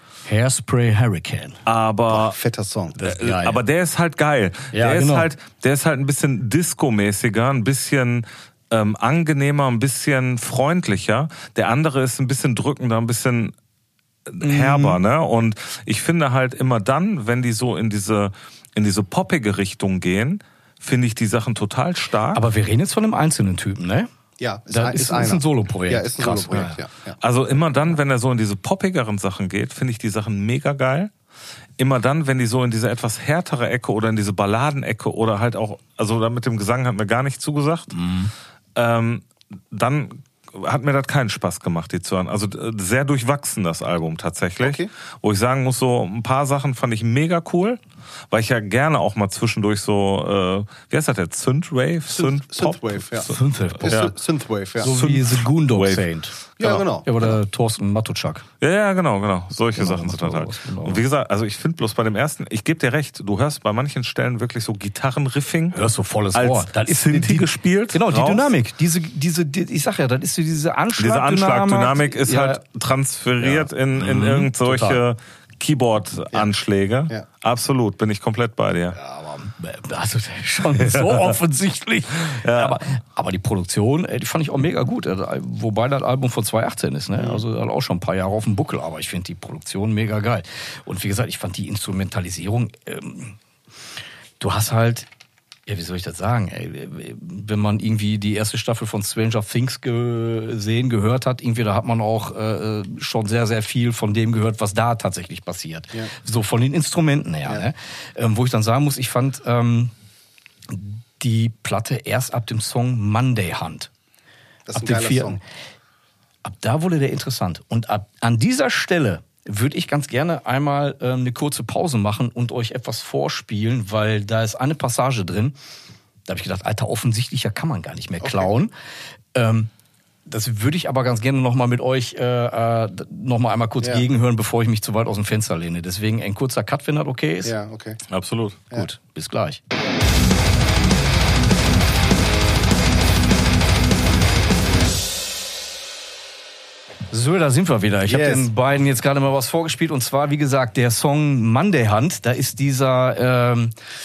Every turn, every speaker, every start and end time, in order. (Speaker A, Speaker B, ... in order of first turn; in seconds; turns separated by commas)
Speaker A: 0.2-1.6, Speaker B: 1.7-2.4, Speaker C: 2.1-3.0, Speaker A: 3.0-3.6, Speaker B: 3.0-13.5, Speaker A: 4.7-5.3, Speaker B: 14.3-22.4, Speaker A: 14.4-15.0, Speaker A: 22.3-24.1, Speaker C: 24.4-27.2, Speaker A: 24.7-26.8, Speaker B: 27.2-31.1, Speaker B: 31.8-37.9, Speaker A: 37.9-38.3, Speaker B: 38.8-47.8, Speaker C: 44.6-44.9, Speaker B: 48.3-54.1, Speaker C: 52.1-55.2, Speaker A: 53.2-54.0, Speaker A: 54.8-56.4, Speaker B: 54.8-56.0, Speaker B: 56.6-56.8, Speaker C: 56.6-57.4, Speaker A: 57.0-58.4, Speaker B: 58.6-65.8, Speaker A: 59.8-61.0, Speaker A: 65.7-72.6, Speaker B: 66.3-68.5, Speaker B: 71.0-79.0, Speaker A: 73.4-75.0, Speaker A: 79.0-93.4, Speaker B: 80.8-81.3, Speaker B: 82.3-82.8, Speaker C: 87.2-87.4, Speaker A: 94.4-95.1, Speaker A: 95.7-109.9, Speaker A: 110.7-113.9, Speaker C: 114.7-115.4, Speaker A: 114.8-115.4, Speaker A: 116.4-125.6, Speaker A: 126.3-128.7, Speaker C: 128.2-128.6, Speaker A: 129.3-129.7, Speaker A: 130.3-137.6, Speaker C: 133.8-134.1, Speaker C: 137.4-138.0, Speaker B: 138.1-138.6, Speaker A: 138.7-139.6, Speaker A: 147.1-153.7, Speaker C: 148.1-148.5